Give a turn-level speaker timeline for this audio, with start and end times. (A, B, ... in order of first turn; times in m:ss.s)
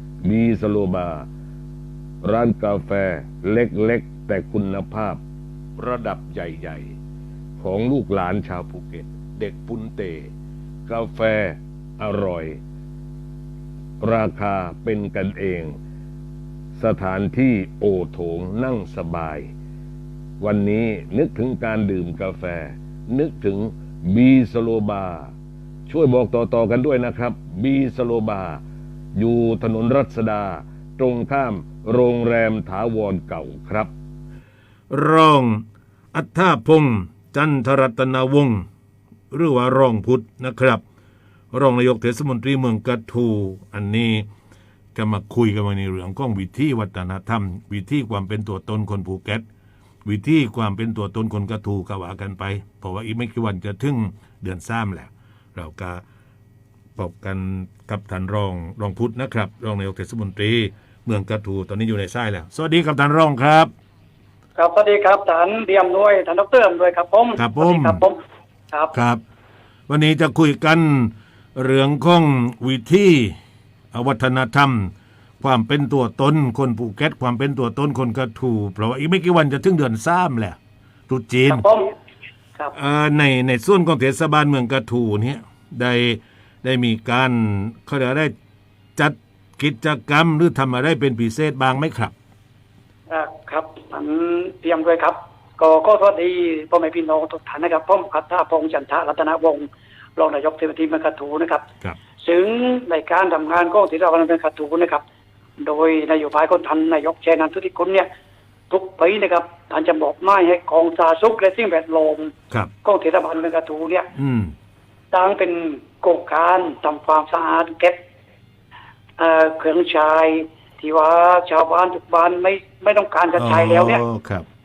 0:00.2-0:01.3 A
0:02.2-0:05.2 A
0:05.8-0:06.9 A
0:07.6-0:10.3 A
0:10.9-0:12.6 A
0:14.0-0:15.8 A
0:16.8-0:19.5 A
0:20.4-0:25.3 A
0:25.9-0:28.6 A
0:29.2-0:33.9 A
0:34.9-0:38.7 B
0:39.3-0:40.8 B
0:41.5-0:44.3 B
0:45.0-0:49.4 B
0:50.0-0:56.0 B
0:57.0-1:03.7 B
1:04.6-1:08.2 C
1:07.4-1:08.0 B
1:08.9-1:09.2 B
1:09.9-1:13.4 B
1:13.9-1:20.6 B
1:21.1-1:21.6 B
1:21.5-1:21.9 C
1:22.7-1:28.3 B
1:29.0-1:32.1 B
1:33.1-1:41.6 C
1:42.2-1:45.0 C
1:45.6-1:48.1 C
1:48.7-1:52.3 C
1:52.8-1:54.1 C
1:54.1-1:54.5 B
1:55.1-1:58.0 C
1:59.2-2:04.0 C
2:03.4-2:04.4 B